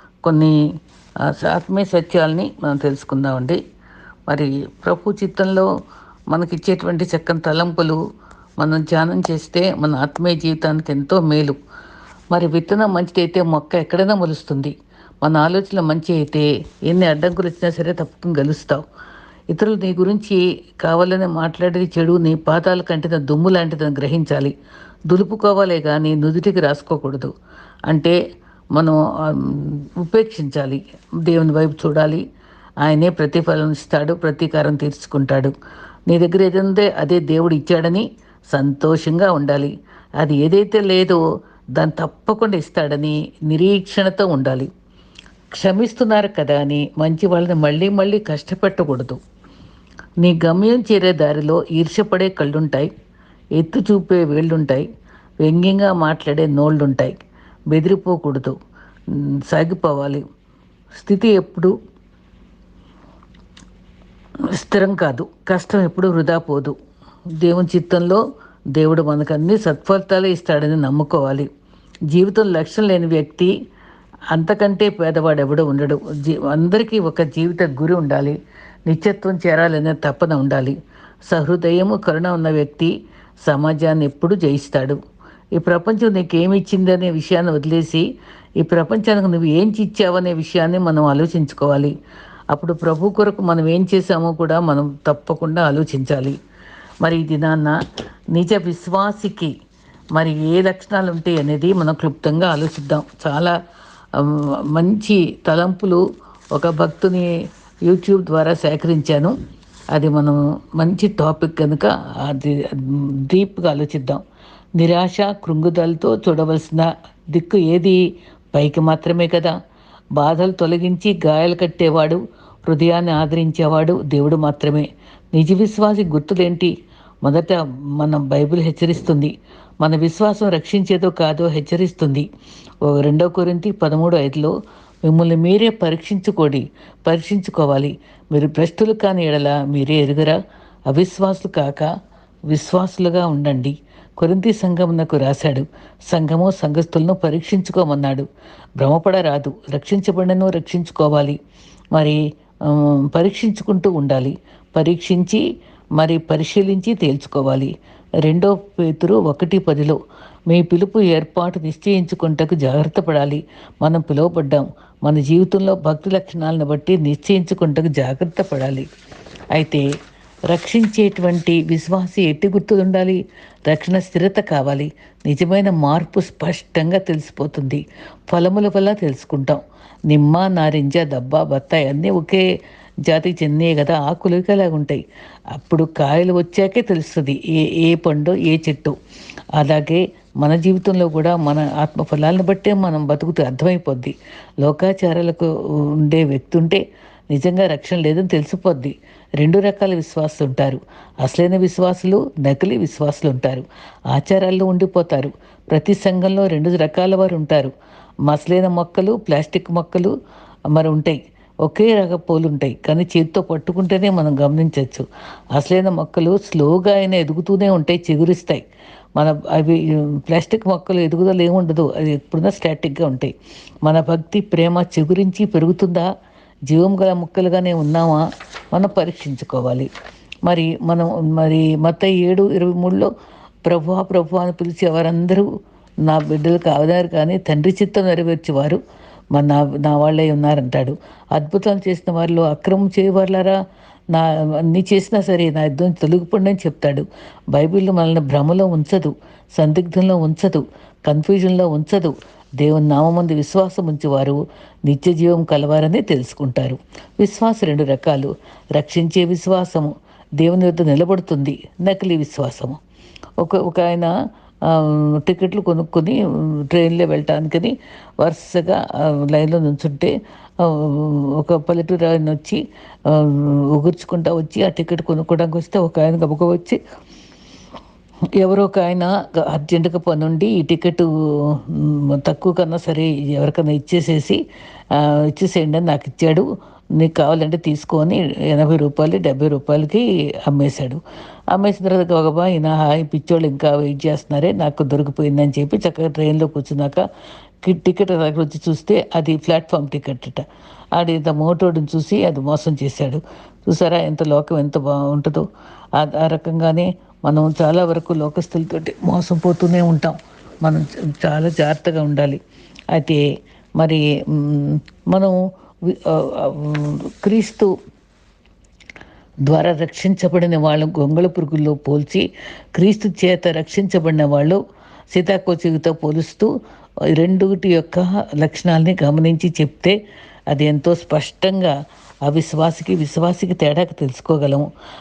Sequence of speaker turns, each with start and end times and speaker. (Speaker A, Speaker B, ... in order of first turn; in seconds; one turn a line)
Speaker A: 0.2-0.6
Speaker A: 1.2-3.6
Speaker A: 4.3-5.7
Speaker A: 6.3-8.0
Speaker A: 8.6-11.6
Speaker A: 12.3-18.8
Speaker A: 19.5-24.5
Speaker A: 25.1-27.3
Speaker A: 27.9-28.1
Speaker A: 28.7-32.2
Speaker A: 32.8-35.5
Speaker A: 36.1-41.2
Speaker A: 41.7-44.7
Speaker A: 45.5-49.2
Speaker A: 50.2-52.9
Speaker A: 53.5-54.9
Speaker A: 55.4-57.2
Speaker A: 57.7-58.5
Speaker A: 59.1-60.2
Speaker A: 60.9-61.7
Speaker A: 64.5-66.7
Speaker A: 67.4-68.2
Speaker A: 68.7-71.5
Speaker A: 72.1-73.5
Speaker A: 74.3-78.3
Speaker A: 78.9-80.7
Speaker A: 81.3-82.9
Speaker A: 83.4-85.0
Speaker A: 85.5-88.0
Speaker A: 88.6-91.9
Speaker A: 92.5-96.3
Speaker A: 97.0-97.8
Speaker A: 98.3-99.5
Speaker A: 100.1-103.5
Speaker A: 104.2-106.0
Speaker A: 106.5-107.3
Speaker A: 107.8-109.3
Speaker A: 109.9-114.2
Speaker A: 114.8-118.0
Speaker A: 118.5-119.5
Speaker A: 120.2-126.7
Speaker A: 127.2-132.2
Speaker A: 132.8-134.5
Speaker A: 135.1-140.4
Speaker A: 140.9-141.9
Speaker A: 142.5-148.2
Speaker A: 148.8-151.4
Speaker A: 151.9-155.4
Speaker A: 156.0-157.7
Speaker A: 158.2-168.9
Speaker A: 169.5-169.8
Speaker A: 170.5-182.4
Speaker A: 183.1-185.0
Speaker A: 185.5-188.9
Speaker A: 189.5-207.7
Speaker A: 208.3-210.1
Speaker A: 210.7-218.6
Speaker A: 219.2-223.3
Speaker A: 223.8-226.1
Speaker A: 226.7-229.9
Speaker A: 230.4-233.1
Speaker A: 233.6-235.5
Speaker A: 236.0-238.8
Speaker A: 239.3-243.6
Speaker A: 244.1-262.8
Speaker A: 263.4-264.1
Speaker A: 264.7-266.2
Speaker A: 266.7-276.8
Speaker A: 278.4-284.4
Speaker A: 284.9-286.4
Speaker A: 287.0-291.0
Speaker A: 291.5-297.0
Speaker A: 297.6-300.4
Speaker A: 300.9-305.4
Speaker A: 305.9-312.4
Speaker A: 312.9-313.2
Speaker A: 313.8-317.7
Speaker A: 319.5-324.6
Speaker A: 325.1-326.5
Speaker A: 327.1-329.9
Speaker A: 330.5-334.7